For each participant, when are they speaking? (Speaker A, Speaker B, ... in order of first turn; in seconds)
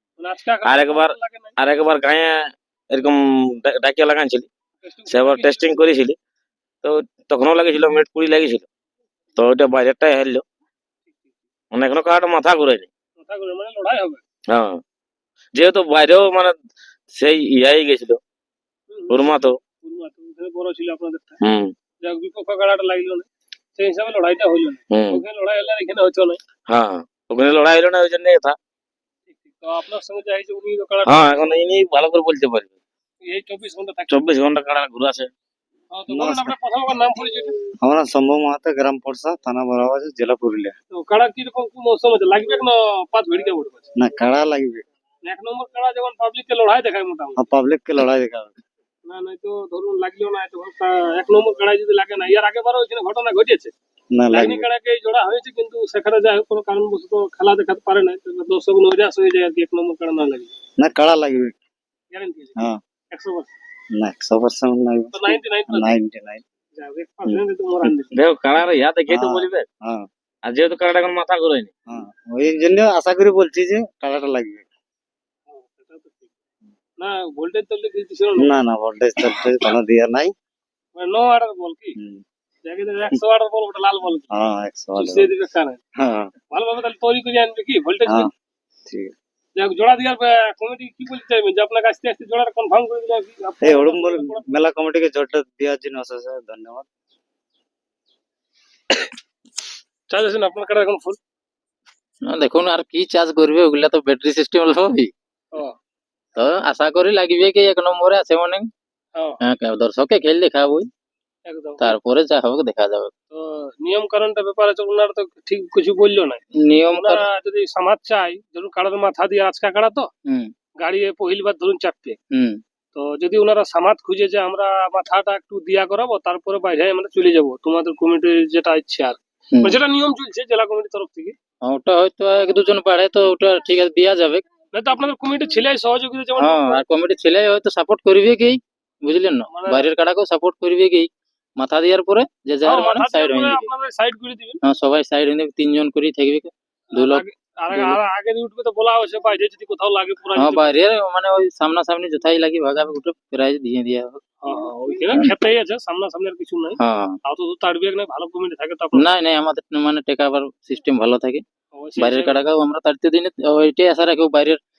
Speaker A: 0.2-1.6, 4.8-5.8, 11.1-11.3, 13.2-14.2, 18.9-19.3, 19.8-21.4, 22.0-26.4, 29.3-31.6, 33.2-34.2, 35.9-37.5, 40.9-43.9, 45.2-47.4, 49.0-53.7, 54.3-60.5, 62.1-63.5, 65.1-66.0, 66.8-68.2, 75.5-76.3, 77.0-78.6, 81.0-82.0, 82.6-84.3, 85.0-85.8, 86.5-88.3, 89.6-94.5, 100.1-101.2, 111.5-112.0, 113.3-116.4, 116.9-120.1, 120.8-122.2, 122.9-131.3, 134.7-136.8, 139.5-139.9, 142.6-144.6, 146.9-150.7, 154.4-159.0, 161.7-162.4
Speaker B: 0.6-4.5, 5.1-6.2, 6.8-8.6, 9.3-10.4, 11.7-12.9, 14.5-14.8, 15.5-16.5, 17.1-18.2, 19.1-19.6, 21.4-21.7, 24.9-25.2, 26.7-28.6, 31.1-32.7, 34.1-35.3, 68.1-69.7, 70.4-71.7
Speaker C: 36.1-36.5, 37.8-40.7, 44.0-44.8, 47.4-48.6, 54.1-54.6, 60.8-61.5, 63.9-66.4, 67.2-67.9, 69.1-70.0, 71.9-74.7, 78.4-80.3, 82.0-82.2, 84.3-85.3, 86.0-86.3, 88.9-89.1, 93.6-96.8
Speaker D: 102.3-105.1, 106.3-108.7, 109.4-110.9, 111.8-113.1, 116.5-117.3, 120.2-120.5, 122.3-122.6, 129.5-129.8, 131.6-134.4, 136.4-143.7, 144.6-148.0, 150.3-154.2, 156.8-157.2, 158.9-161.4, 162.0-164.6